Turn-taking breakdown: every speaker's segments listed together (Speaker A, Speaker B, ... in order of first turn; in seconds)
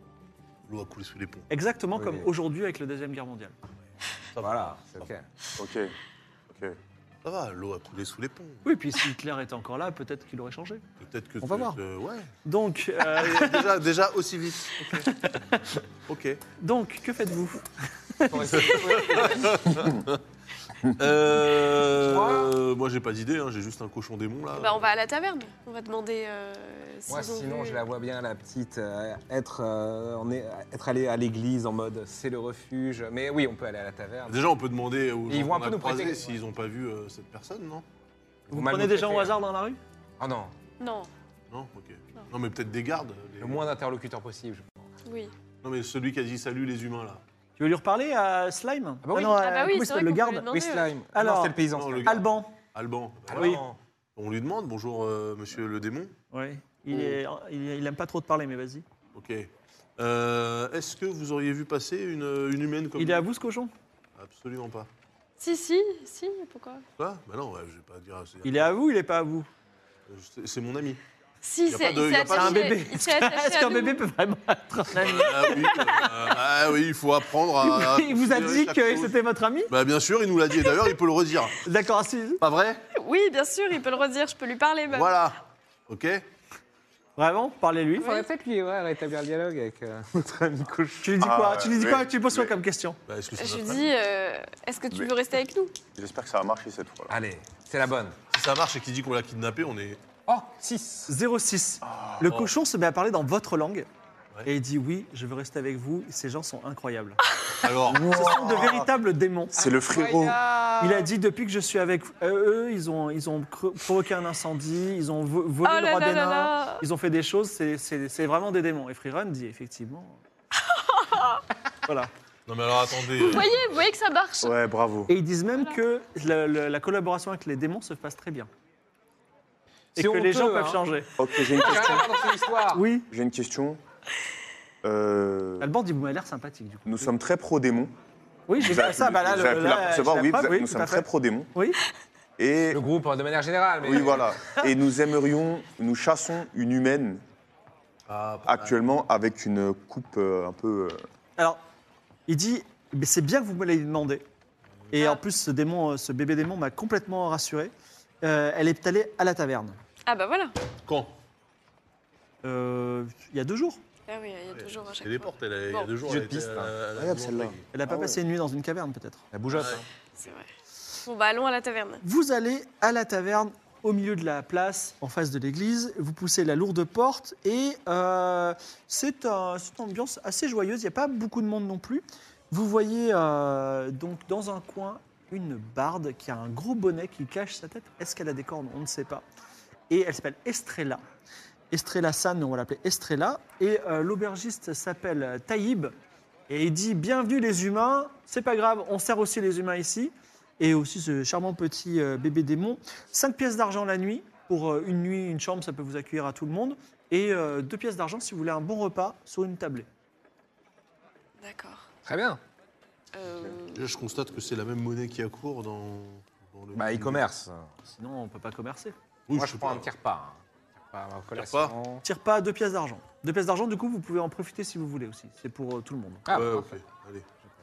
Speaker A: 0.7-1.5, 4.3-5.1, 7.2-8.6, 11.0-12.3, 13.0-14.8, 16.1-16.4, 18.7-20.2, 20.8-24.9, 34.2-37.8, 41.5-43.7, 45.6-47.2, 51.7-56.1, 56.9-57.2, 59.1-63.2, 64.2-64.9, 67.0-68.7, 70.1-71.0, 71.7-72.8, 74.9-79.1, 79.7-81.6, 82.4-82.8, 84.9-86.2, 93.1-93.8, 98.3-100.0, 107.6-108.1, 122.5-123.6, 148.1-148.8, 160.8-161.2, 164.5-167.6, 169.5-169.8, 213.7-217.2, 219.3-219.9, 221.3-221.7, 226.3-227.2
Speaker B: 1.5-3.5, 8.6-10.8, 11.4-11.8, 12.4-13.7, 14.9-15.8, 16.6-19.2, 38.5-39.8, 47.6-50.6, 51.1-52.5, 53.4-53.6, 56.3-58.8, 63.0-63.7, 68.4-69.5, 72.3-76.3, 77.6-79.7, 81.6-82.4, 87.2-88.1, 91.0-93.0, 101.1-103.9, 104.4-107.2, 107.9-109.6, 110.8-120.2, 121.8-122.1, 125.1-128.5, 129.9-131.1, 132.7-133.1, 135.6-137.1, 138.5-141.8, 152.3-154.2, 154.9-159.8, 162.4-163.8, 167.7-169.2, 172.0-189.2, 189.9-191.0, 191.7-195.9, 196.5-209.9, 217.9-218.9, 222.0-226.3
Speaker C: 1.9-2.3, 4.4-5.2, 18.3-19.5, 22.0-22.5, 27.1-34.4, 35.3-36.3, 38.5-39.4, 40.2-40.5, 43.4-44.9, 49.0-49.4, 50.5-52.2, 53.3-53.8, 88.0-91.2, 97.1-98.2, 100.3-101.1, 129.9-130.8, 131.5-132.8, 142.7-144.3, 166.0-166.7, 169.3-169.8, 212.0-212.4, 216.7-217.7, 219.3-222.0, 226.2-226.8
Speaker D: 5.6-5.9, 6.5-6.8, 91.2-92.5, 95.9-97.2, 101.8-102.4, 107.8-108.9, 109.5-110.4, 124.4-125.1, 131.2-132.2, 133.1-133.8, 134.8-135.7, 136.8-137.9, 138.6-141.5, 142.4-142.8, 143.8-147.2, 148.4-151.0, 166.9-168.2
Speaker E: 24.6-27.8, 40.8-41.1, 45.0-45.3, 49.2-50.9, 65.4-66.8, 71.4-74.0, 82.9-85.2, 88.0-88.2, 93.3-95.7, 109.6-111.0, 115.6-116.8, 120.7-121.4, 123.2-124.5, 160.1-160.5, 164.1-165.9, 170.2-170.5, 171.1-172.0, 211.4-211.9, 213.1-213.8